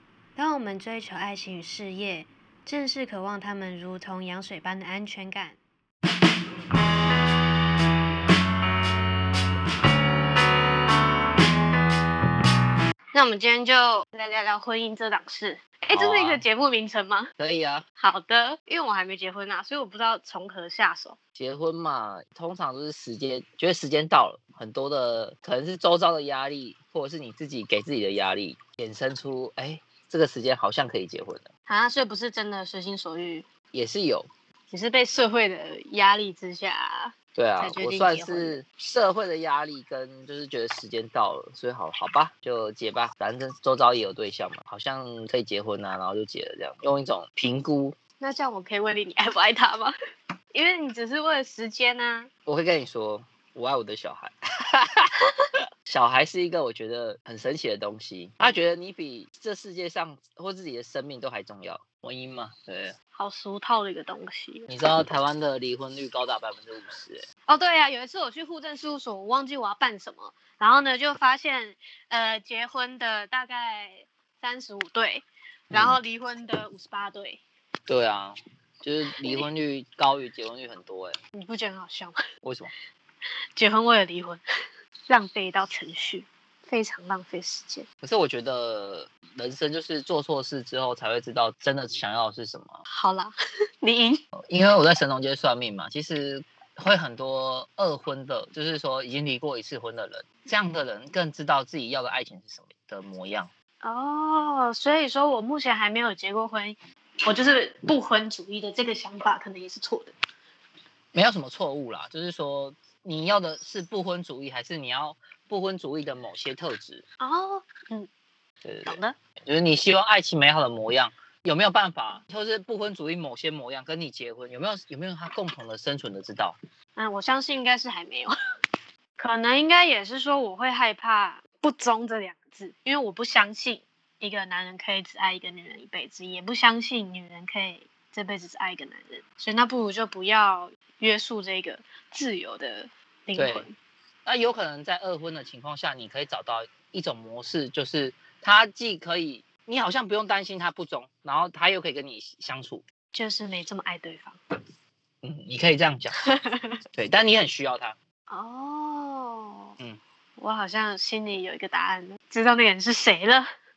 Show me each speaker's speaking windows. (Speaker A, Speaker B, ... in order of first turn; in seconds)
Speaker A: 0.4-5.6, 13.1-17.3, 18.0-21.2, 31.7-33.5, 34.7-38.6, 48.2-49.9, 50.5-52.3, 63.1-64.7, 67.5-77.4, 79.2-79.5, 81.3-82.2, 83.6-84.4, 85.1-87.9, 92.9-94.2, 103.8-110.1, 117.2-118.1, 118.9-119.2, 127.0-128.3, 129.2-143.7, 153.1-154.4, 156.3-156.8, 158.3-159.8, 160.4-163.5
Speaker B: 15.9-16.4, 17.4-17.8, 21.4-31.5, 33.7-34.3, 37.4-48.0, 52.5-55.1, 55.9-63.0, 64.7-67.2, 75.7-76.0, 77.9-81.2, 82.4-82.7, 88.0-92.8, 94.5-103.5, 111.1-117.0, 118.6-126.6, 143.3-143.7, 144.2-152.8, 155.2-156.2, 156.9-158.0